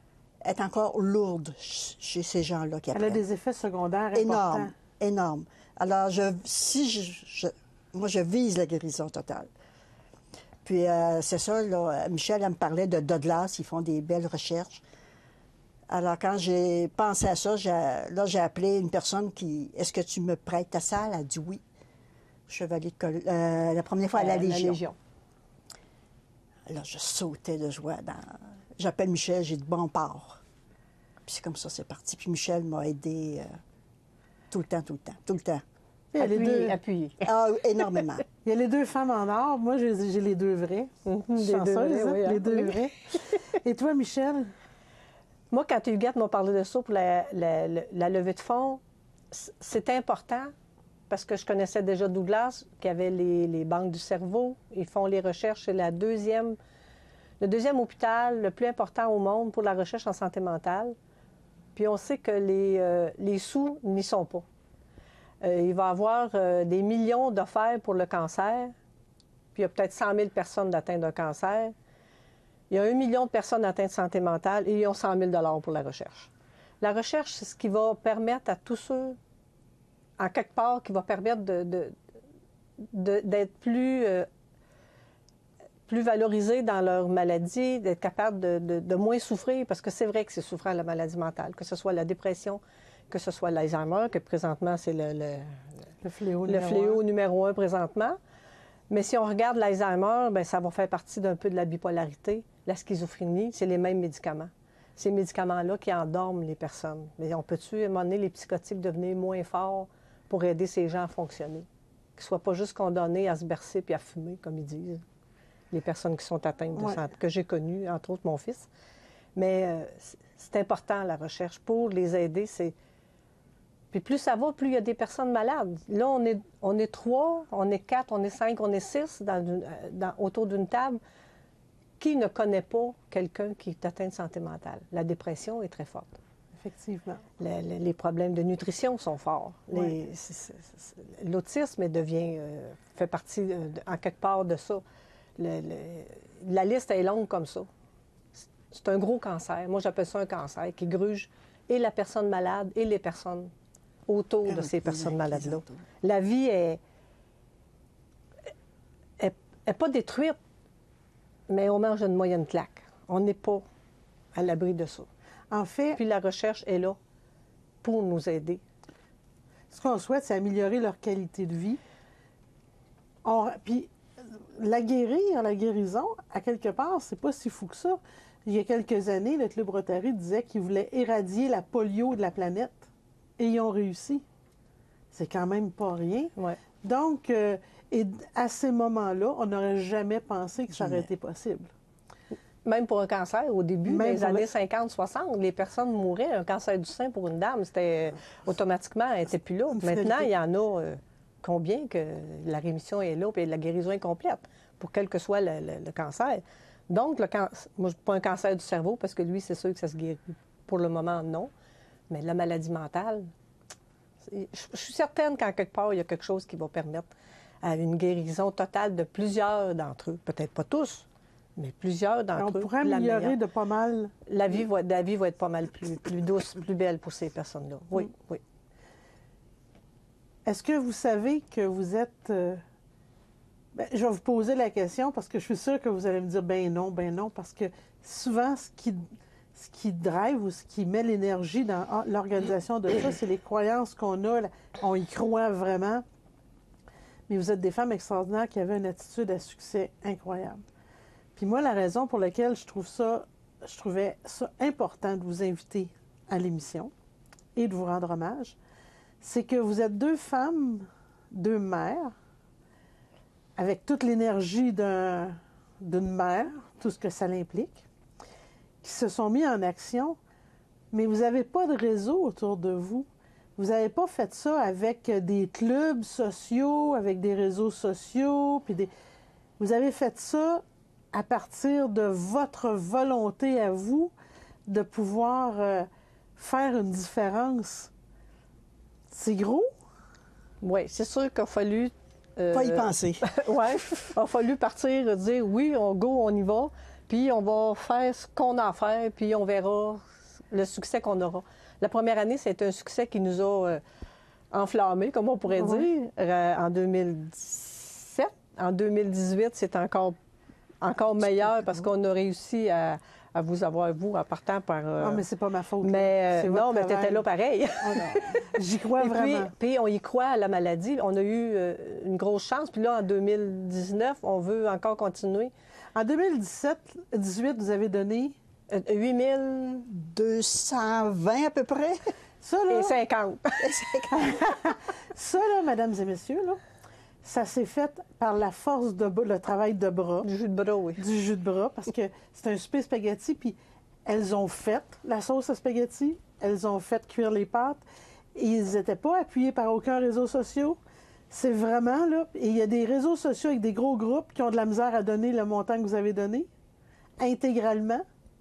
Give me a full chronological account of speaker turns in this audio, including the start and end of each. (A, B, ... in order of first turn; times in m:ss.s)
0:00.4-0:03.2 A
0:02.9-0:04.7 B
0:04.1-0:09.5 A
0:10.6-0:14.8 A
0:15.9-0:21.6 A
0:22.5-0:24.8 A
0:24.1-0:25.0 C
0:26.7-0:30.4 A
0:31.2-0:33.6 A
0:34.5-0:35.6 A
0:36.1-0:36.8 B
0:36.2-0:37.3 C
0:37.2-0:38.2 A
0:38.4-0:44.5 B
0:41.0-0:43.4 C
0:45.5-0:48.8 C
0:49.3-0:50.5 C
0:51.1-0:56.6 C
0:57.4-1:00.9 C
1:01.7-1:04.4 C
1:05.4-1:08.7 C
1:09.5-1:11.7 C
1:12.7-1:16.3 C
1:16.8-1:19.2 C
1:20.2-1:21.9 C
1:22.8-1:24.3 C
1:25.9-1:35.6 C
1:36.0-1:37.0 B
1:36.5-1:38.2 C
1:38.9-1:55.0 C
1:55.7-1:58.7 C
1:56.7-1:57.0 B
1:59.4-2:02.7 C
2:03.9-2:11.0 C
2:12.0-2:16.2 C
2:16.6-2:17.2 B
2:17.4-2:24.8 C
2:25.4-2:27.7 C
2:28.4-2:33.5 C
2:34.1-2:36.8 C
2:34.4-2:35.8 A
2:39.2-2:40.4 C
2:41.5-2:43.6 C
2:44.3-2:45.1 C
2:45.5-2:46.0 B
2:45.9-2:47.0 C
2:47.8-2:48.6 C
2:49.7-2:51.8 B
2:53.2-3:04.2 B
3:05.1-3:11.7 B
3:10.8-3:11.0 A
3:12.6-3:31.5 C
3:13.8-3:14.4 B
3:19.7-3:20.3 B
3:32.1-3:33.3 C
3:34.3-3:37.1 C
3:37.6-3:43.4 C
3:42.4-3:44.1 B
3:44.3-3:48.4 C
3:50.4-3:52.6 B
3:53.7-3:59.0 B
3:59.5-4:06.0 B
4:07.3-4:10.6 B
4:11.4-4:16.9 B
4:17.6-4:18.6 B
4:19.2-4:22.1 B
4:23.6-4:27.8 B
4:28.8-4:30.2 B
4:30.9-4:38.9 B
4:39.6-4:44.1 B
4:44.7-4:47.9 B
4:49.1-4:49.7 B
4:50.6-5:03.8 C
4:52.5-4:53.3 A
5:04.5-5:10.2 C
5:05.5-5:05.9 B
5:10.8-5:15.2 C
5:15.0-5:17.2 B
5:15.8-5:25.5 C
5:17.8-5:18.2 A
5:18.4-5:19.5 B
5:25.9-5:28.4 B
5:28.7-5:29.9 C
5:29.9-5:32.0 A
5:32.4-5:33.0 B
5:32.7-5:34.4 C
5:33.6-5:34.4 A
5:34.4-5:36.6 B
5:37.2-5:40.2 B
5:40.2-5:41.0 C
5:41.0-5:47.8 B
5:48.3-5:50.8 B
5:51.3-5:56.5 B
5:57.2-5:58.0 B